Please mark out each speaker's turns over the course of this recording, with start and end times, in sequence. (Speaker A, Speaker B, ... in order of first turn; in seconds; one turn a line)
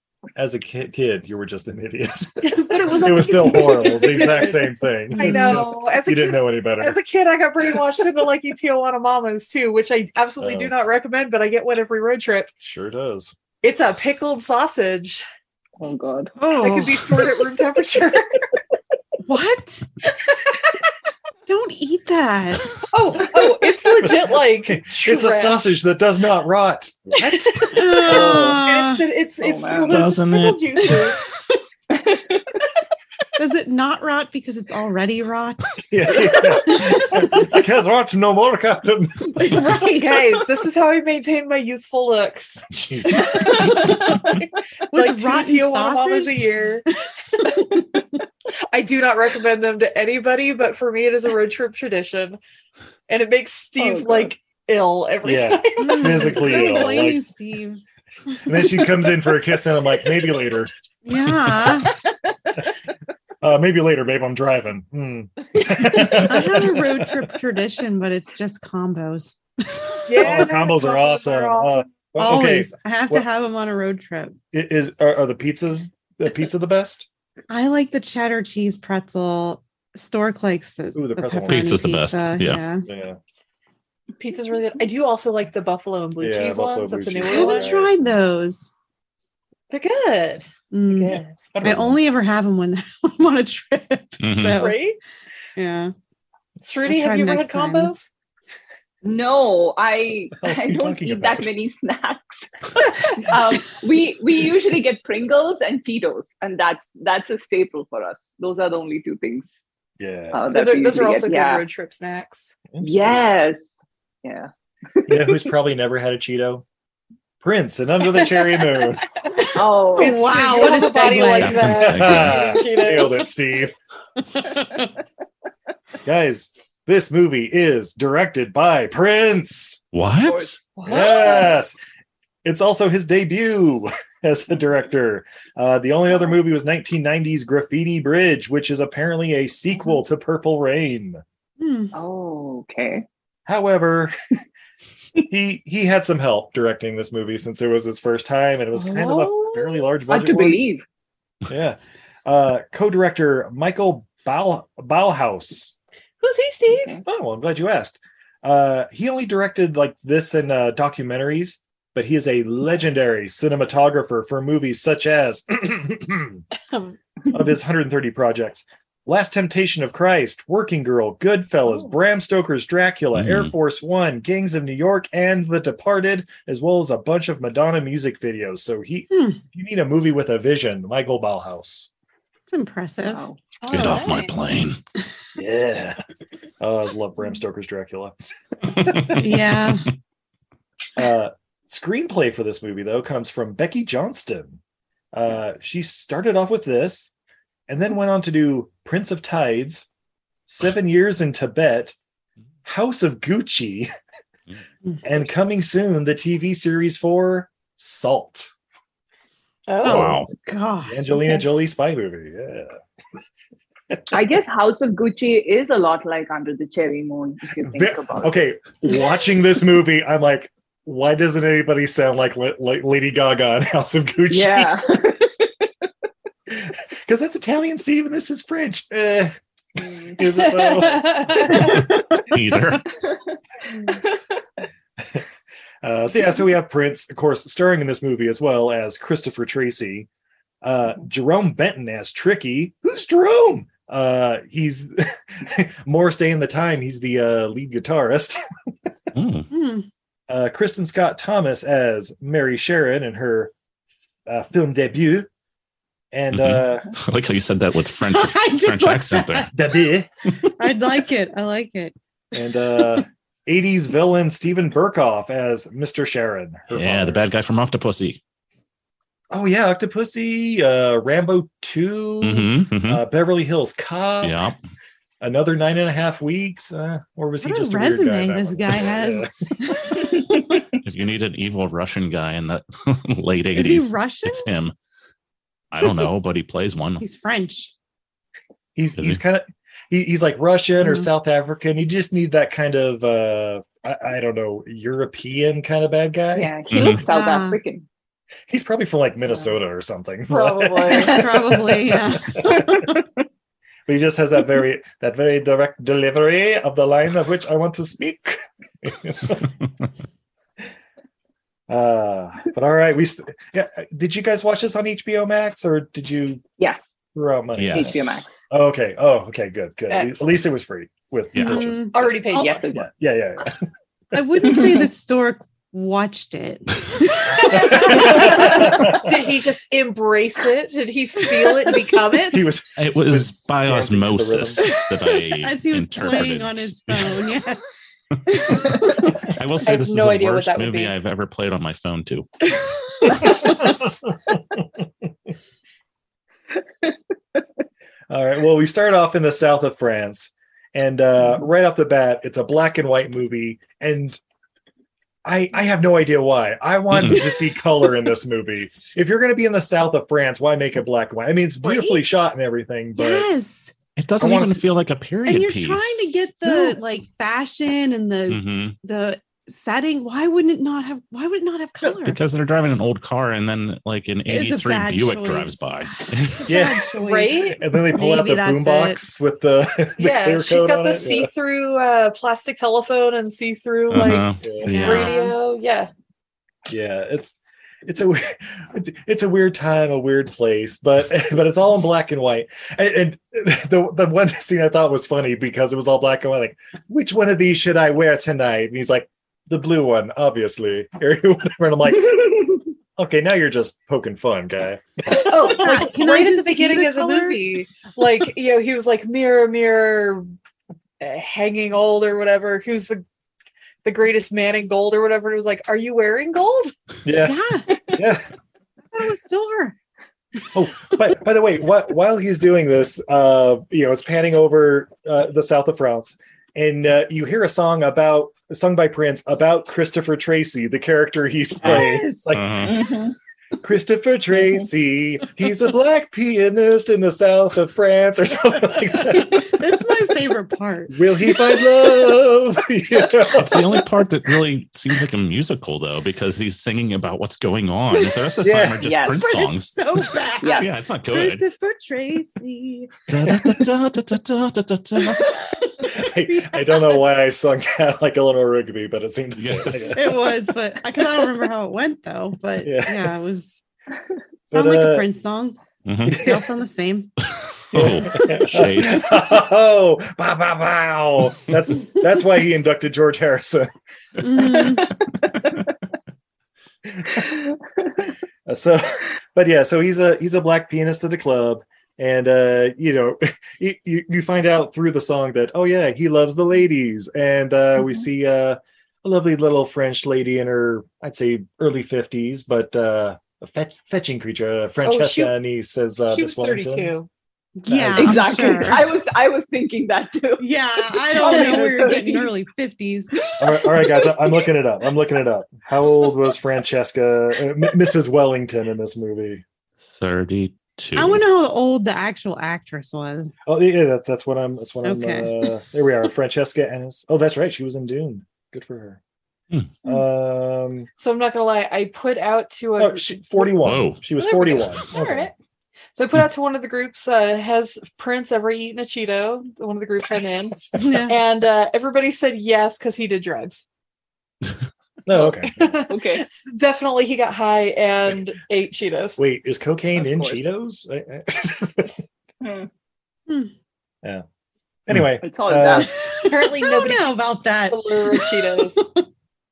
Speaker A: 0.3-7.0
Speaker B: 2.4-12.5
Speaker A: 10.4-10.7
Speaker A: 12.6-13.3
Speaker B: 13.6-15.2
Speaker C: 15.8-16.3
Speaker D: 16.4-17.3
Speaker B: 16.6-18.4
Speaker D: 19.2-19.9
Speaker D: 21.4-22.8
Speaker B: 22.9-25.8
Speaker A: 24.0-28.1
Speaker B: 27.2-31.2
Speaker D: 27.7-29.1
Speaker C: 28.1-28.6
Speaker C: 29.4-30.1
Speaker E: 29.9-30.9
Speaker C: 31.9-32.5
Speaker D: 33.4-35.8
Speaker A: 35.9-39.3
Speaker D: 36.6-37.5
Speaker D: 39.3-40.4
Speaker B: 40.0-46.9
Speaker A: 42.7-43.4
Speaker D: 44.9-46.5
Speaker B: 48.7-52.4
Speaker B: 53.1-56.6
Speaker C: 53.8-54.3
Speaker A: 55.2-57.3
Speaker D: 55.8-59.1
Speaker A: 58.4-60.7
Speaker D: 61.0-61.9
Speaker A: 63.4-67.2
Speaker C: 65.6-66.2
Speaker D: 66.1-70.3
Speaker B: 70.1-71.8
Speaker A: 70.2-73.2
Speaker D: 72.2-74.4
Speaker A: 74.5-77.1
Speaker D: 77.5-82.9
Speaker A: 80.9-81.8
Speaker E: 81.5-82.6
Speaker A: 82.9-83.2
Speaker B: 84.2-87.7
Speaker A: 86.2-88.1
Speaker D: 87.2-88.7
Speaker B: 89.7-91.3
Speaker D: 90.7-94.9
Speaker A: 91.5-92.0
Speaker E: 94.2-94.6
Speaker B: 94.6-95.0
Speaker D: 95.6-95.9
Speaker B: 96.6-98.1
Speaker D: 96.8-97.9
Speaker C: 99.0-109.5
Speaker A: 100.4-101.5
Speaker A: 110.0-110.5
Speaker C: 110.3-111.6
Speaker B: 110.5-112.5
Speaker A: 112.7-113.2
Speaker C: 112.8-113.7
Speaker C: 114.2-115.4
Speaker A: 115.1-116.6
Speaker A: 117.4-119.0
Speaker D: 119.4-121.9
Speaker C: 119.5-120.6
Speaker B: 120.0-123.3
Speaker E: 121.3-122.4
Speaker A: 121.7-123.7
Speaker A: 126.0-129.8
Speaker E: 129.9-130.6
Speaker C: 130.2-131.5
Speaker B: 130.8-131.5
Speaker A: 130.9-131.7
Speaker A: 132.4-141.2
Speaker D: 141.6-141.9
Speaker C: 141.9-143.1
Speaker A: 143.4-144.1
Speaker A: 145.3-150.6
Speaker B: 148.7-149.9
Speaker C: 150.1-150.8
Speaker A: 151.5-155.7
Speaker B: 156.2-157.0
Speaker C: 156.7-157.0
Speaker A: 157.1-166.4
Speaker A: 167.3-181.9
Speaker E: 173.1-173.5
Speaker D: 179.1-179.4
Speaker D: 182.5-183.2
Speaker C: 183.1-183.4
Speaker B: 183.6-184.3
Speaker E: 183.7-184.8
Speaker A: 185.4-186.0
Speaker A: 186.6-189.4
Speaker E: 188.8-189.1
Speaker D: 189.2-189.9
Speaker A: 190.9-194.6
Speaker A: 195.1-197.1
Speaker A: 197.7-199.9
Speaker A: 200.5-201.9
Speaker A: 202.6-203.9
Speaker A: 205.0-208.5
Speaker B: 209.7-210.1
Speaker D: 209.8-211.5
Speaker E: 209.8-210.3
Speaker A: 210.8-212.8
Speaker C: 214.1-218.4
Speaker A: 217.6-224.8
Speaker C: 224.3-225.7
Speaker A: 226.5-229.4
Speaker C: 229.8-230.1
Speaker A: 230.1-231.7
Speaker B: 230.3-231.8
Speaker E: 232.3-232.8
Speaker A: 235.0-235.2
Speaker A: 235.8-240.1
Speaker A: 240.6-248.4
Speaker E: 249.1-249.5
Speaker D: 249.5-249.9
Speaker A: 250.3-253.5
Speaker A: 254.3-255.3
Speaker A: 256.1-256.9
Speaker E: 256.3-259.5
Speaker D: 257.9-259.5
Speaker A: 259.5-260.1
Speaker D: 260.6-261.9
Speaker A: 262.3-267.2
Speaker D: 262.6-263.0
Speaker E: 266.7-268.2
Speaker A: 269.3-274.5
Speaker E: 272.2-273.0
Speaker E: 274.2-274.6
Speaker A: 275.2-279.3
Speaker D: 277.4-280.5
Speaker E: 280.8-284.7
Speaker D: 283.5-284.5
Speaker E: 285.7-287.0
Speaker D: 287.0-287.7
Speaker A: 288.8-296.5
Speaker D: 290.8-291.1
Speaker C: 296.3-297.9
Speaker E: 296.7-297.0
Speaker D: 297.0-297.6
Speaker A: 298.5-301.2
Speaker C: 300.4-301.9
Speaker D: 300.8-302.9
Speaker A: 302.3-302.6
Speaker A: 303.9-309.5
Speaker A: 311.7-316.4
Speaker C: 316.6-317.0
Speaker A: 317.1-321.9
Speaker E: 317.6-318.1
Speaker C: 317.7-318.4
Speaker B: 319.9-320.3
Speaker E: 321.3-321.7
Speaker D: 321.4-322.6
Speaker B: 321.9-322.6
Speaker C: 322.3-322.9
Speaker A: 322.7-323.6
Speaker D: 324.1-328.8
Speaker C: 324.4-324.9
Speaker A: 327.5-329.0
Speaker B: 327.5-332.5
Speaker A: 332.3-334.6
Speaker E: 332.8-337.4
Speaker D: 334.6-337.6
Speaker D: 338.3-339.2
Speaker E: 339.3-342.3
Speaker B: 339.6-340.9
Speaker A: 348.1-354.2
Speaker A: 355.2-363.3
Speaker E: 356.9-357.2
Speaker D: 361.6-362.2
Speaker D: 362.9-363.7
Speaker E: 364.0-366.3
Speaker A: 364.2-364.6
Speaker D: 365.2-372.2
Speaker E: 368.3-368.8
Speaker E: 372.0-376.5
Speaker D: 374.2-379.0
Speaker A: 376.5-376.9
Speaker B: 377.0-377.6
Speaker A: 377.5-381.3
Speaker B: 380.0-384.2
Speaker E: 383.9-385.2
Speaker A: 384.4-384.7
Speaker D: 384.6-385.4
Speaker B: 384.8-385.9
Speaker A: 386.7-402.4
Speaker C: 402.2-402.6
Speaker A: 403.0-405.5
Speaker B: 405.1-410.2
Speaker D: 405.4-407.6
Speaker B: 411.0-413.0
Speaker B: 413.8-416.7
Speaker A: 417.1-417.4
Speaker D: 417.1-417.7
Speaker A: 417.9-418.2
Speaker D: 418.9-419.7
Speaker A: 420.5-432.7
Speaker E: 431.6-432.7
Speaker D: 431.7-432.4
Speaker C: 432.6-433.1
Speaker A: 433.6-439.5
Speaker D: 439.2-441.4
Speaker A: 440.9-443.8
Speaker E: 443.3-449.8
Speaker A: 448.4-448.8
Speaker C: 448.8-449.2
Speaker D: 449.1-452.9
Speaker C: 450.4-450.7
Speaker E: 450.6-451.4
Speaker E: 453.1-455.3
Speaker D: 455.9-457.1
Speaker A: 455.9-460.3
Speaker E: 459.4-460.1
Speaker D: 459.9-463.6
Speaker A: 462.6-463.1
Speaker A: 464.5-465.1
Speaker D: 464.5-465.6
Speaker E: 465.9-466.2
Speaker A: 466.1-466.4
Speaker D: 466.1-467.1
Speaker E: 467.7-469.1
Speaker A: 467.7-473.7
Speaker D: 474.2-474.9
Speaker A: 476.9-477.2
Speaker A: 478.4-496.9
Speaker B: 494.8-495.3
Speaker B: 496.1-497.1
Speaker D: 497.6-498.9
Speaker A: 497.7-498.8
Speaker C: 497.9-502.4
Speaker D: 500.4-503.8
Speaker A: 503.4-509.4
Speaker E: 509.9-511.2
Speaker D: 510.9-513.4
Speaker A: 513.5-519.0
Speaker D: 514.8-515.5
Speaker A: 519.8-520.9
Speaker B: 521.0-523.6
Speaker A: 522.8-525.3
Speaker E: 523.6-524.0
Speaker B: 524.1-525.3
Speaker B: 526.0-533.6
Speaker D: 530.8-531.2
Speaker A: 535.1-535.7
Speaker B: 535.1-539.2
Speaker C: 535.9-536.2
Speaker A: 539.2-542.0
Speaker C: 540.0-540.4
Speaker C: 542.4-542.7
Speaker A: 544.9-545.9
Speaker C: 545.2-546.0
Speaker D: 545.8-549.0
Speaker B: 546.2-547.2
Speaker B: 547.7-548.8